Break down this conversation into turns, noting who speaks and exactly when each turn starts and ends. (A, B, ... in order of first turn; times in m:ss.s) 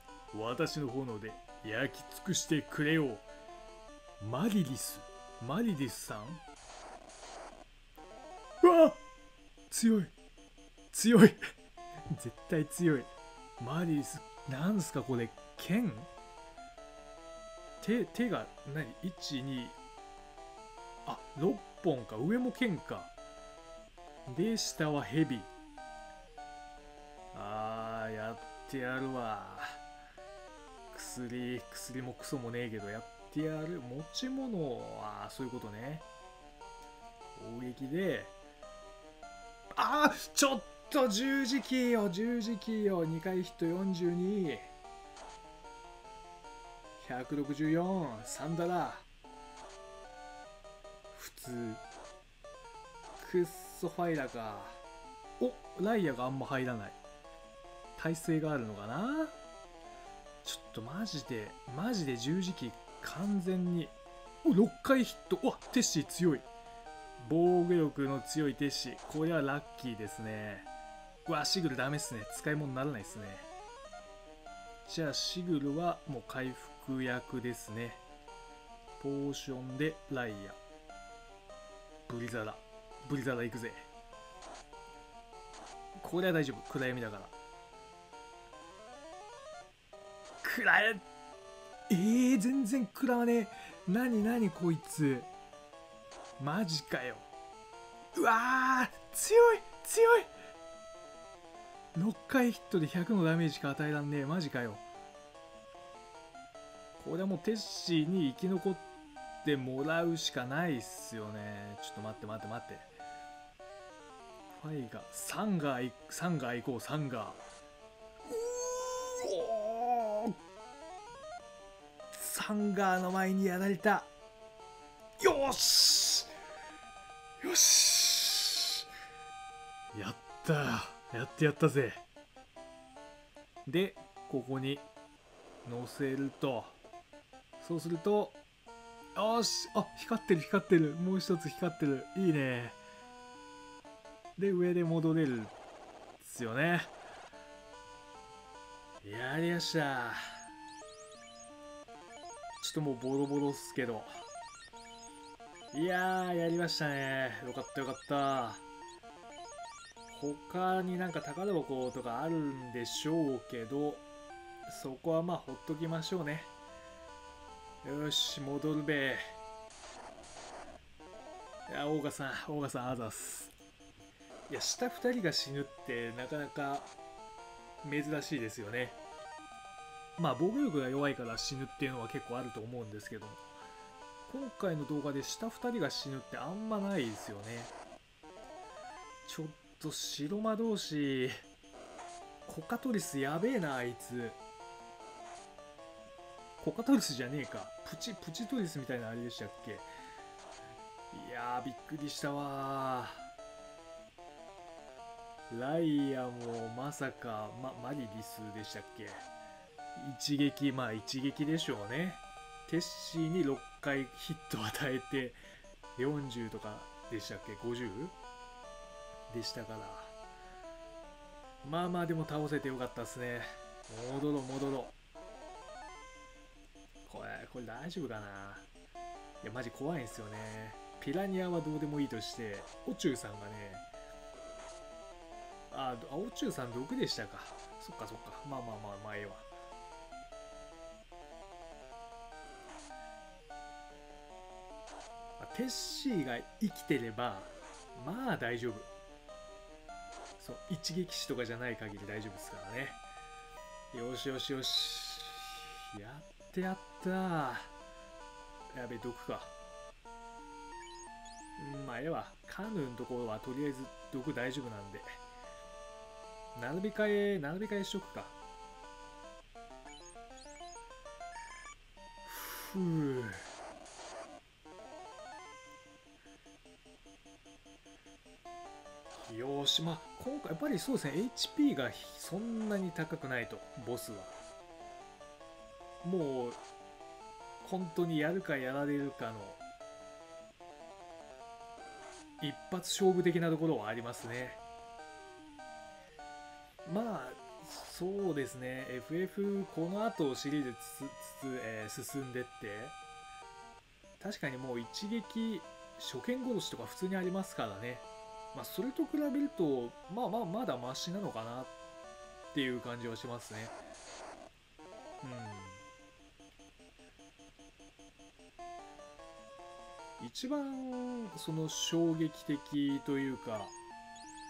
0:00.3-0:03.2 A
0:04.2-0:06.4 A
0:08.6-0:09.0 A
0:09.7-0:10.1 A
0:10.9-0:11.4 A
0:12.1-0:16.1 A
0:17.8-0:19.8 A
0:21.0-0:23.1 A
0:24.2-0:25.5 A
0:27.3-0:29.8 A
0:30.9-0:36.0 A
0:37.4-0:38.3 A
0:39.7-0:44.7 A
0:47.0-0:49.0 A
0:51.1-0:51.8 A
0:53.2-0:54.8 A
0:55.4-0:57.0 A
0:58.0-0:59.3 A
1:00.4-1:06.5 A
1:07.2-1:10.7 A
1:11.2-1:13.5 A
1:14.8-1:18.0 A
1:19.0-1:20.6 A
1:22.1-1:23.9 A
1:26.0-1:27.3 A
1:30.4-1:31.0 A
1:31.9-1:35.3 A
1:36.4-1:37.3 A
1:38.1-1:40.3 A
1:41.9-1:44.8 A
1:47.0-1:48.8 A
1:49.4-1:52.9 A
1:54.5-1:57.4 A
1:58.2-2:00.3 A
2:02.1-2:04.1 A
2:05.2-2:06.3 A
2:07.4-2:08.9 A
2:09.9-2:12.0 A
2:13.6-2:14.9 A
2:15.6-2:16.8 A
2:17.6-2:18.4 A
2:19.1-2:22.8 A
2:24.4-2:25.5 A
2:26.2-2:26.9 A
2:29.0-2:30.2 A
2:32.6-2:34.1 A
2:35.7-2:38.6 A
2:40.1-2:44.0 A
2:44.7-2:46.5 A
2:47.8-2:49.2 A
2:51.7-2:53.5 A
2:54.5-2:56.9 A
2:57.8-2:59.0 A
3:00.2-3:03.4 A
3:04.3-3:07.7 A
3:09.2-3:11.3 A
3:12.4-3:14.4 A
3:16.6-3:19.9 A
3:21.1-3:23.3 A
3:25.5-3:29.3 A
3:30.0-3:35.4 A
3:36.0-3:38.1 A
3:39.3-3:40.1 A
3:41.6-3:44.9 A
3:47.0-3:48.7 A
3:49.4-3:53.8 A
3:55.7-3:59.5 A
4:05.4-4:08.9 A
4:10.4-4:13.0 A
4:13.9-4:17.7 A
4:18.7-4:19.5 A
4:21.6-4:25.2 A
4:26.5-4:28.3 A
4:32.2-4:33.4 A
4:39.2-4:44.4 A
4:46.0-4:46.6 A
4:47.6-4:49.6 A
4:52.4-4:54.6 A
4:56.8-5:03.0 A
5:04.2-5:11.7 A
5:12.5-5:13.8 A
5:15.2-5:15.8 A
5:20.2-5:23.7 A